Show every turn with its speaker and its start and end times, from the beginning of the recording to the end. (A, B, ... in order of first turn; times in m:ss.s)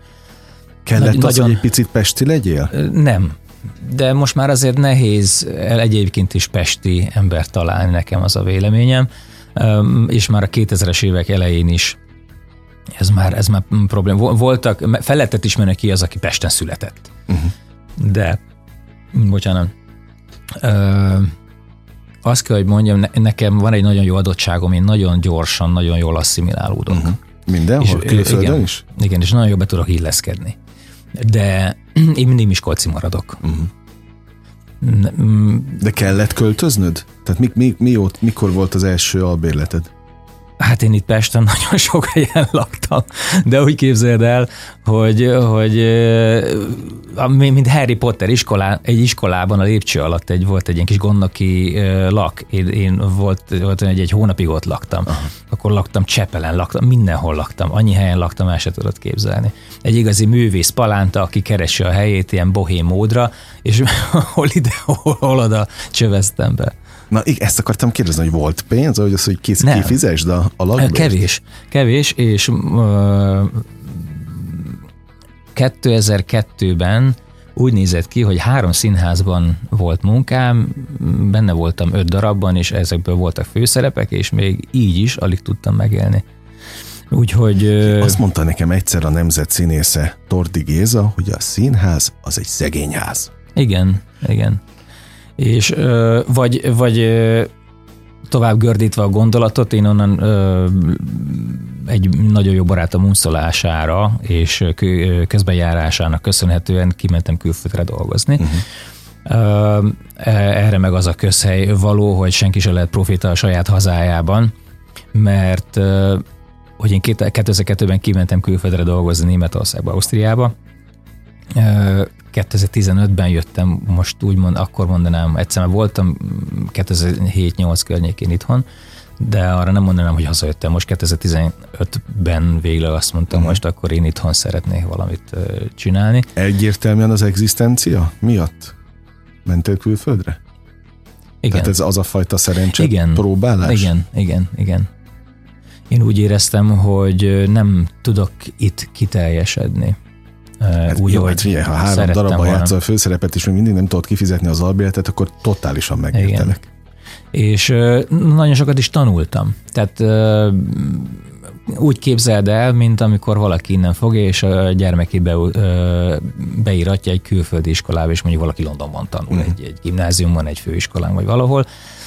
0:00.8-0:02.7 A
0:01.0-0:01.7 B
0:02.7-0:12.0 B
0:13.0-0:17.1 B
0:17.3-0:17.5 A
0:18.0-0:18.4 B
0:19.1-0:19.7 B
0:20.6-0:21.3 B
0:22.2-0:27.2 B
0:26.9-0:28.8 A
0:27.8-0:30.6 B
0:31.2-0:33.4 B
0:33.4-0:33.7 A
0:34.8-0:35.8 B
0:35.8-0:39.9 A
0:40.6-1:06.7 B
1:07.1-1:11.2 A
1:09.6-1:10.0 B
1:10.8-1:14.8 B
1:15.6-1:26.2 B
1:27.1-1:28.2 B
1:27.8-1:33.3 A
1:33.6-1:34.6 B
1:35.4-1:37.5 B
1:38.3-1:48.6 B
1:49.2-1:54.5 B
1:55.1-1:56.2 B
1:56.8-2:00.5 B
2:01.5-2:08.6 B
2:09.2-2:16.3 B
2:13.3-2:13.6 A
2:16.4-2:18.8 A
2:19.4-2:20.4 A
2:21.4-2:21.8 B
2:21.5-2:23.9 A
2:22.8-2:24.9 B
2:25.9-2:30.0 B
2:30.6-2:32.7 B
2:30.9-2:36.6 A
2:36.1-2:36.6 B
2:37.3-2:51.7 B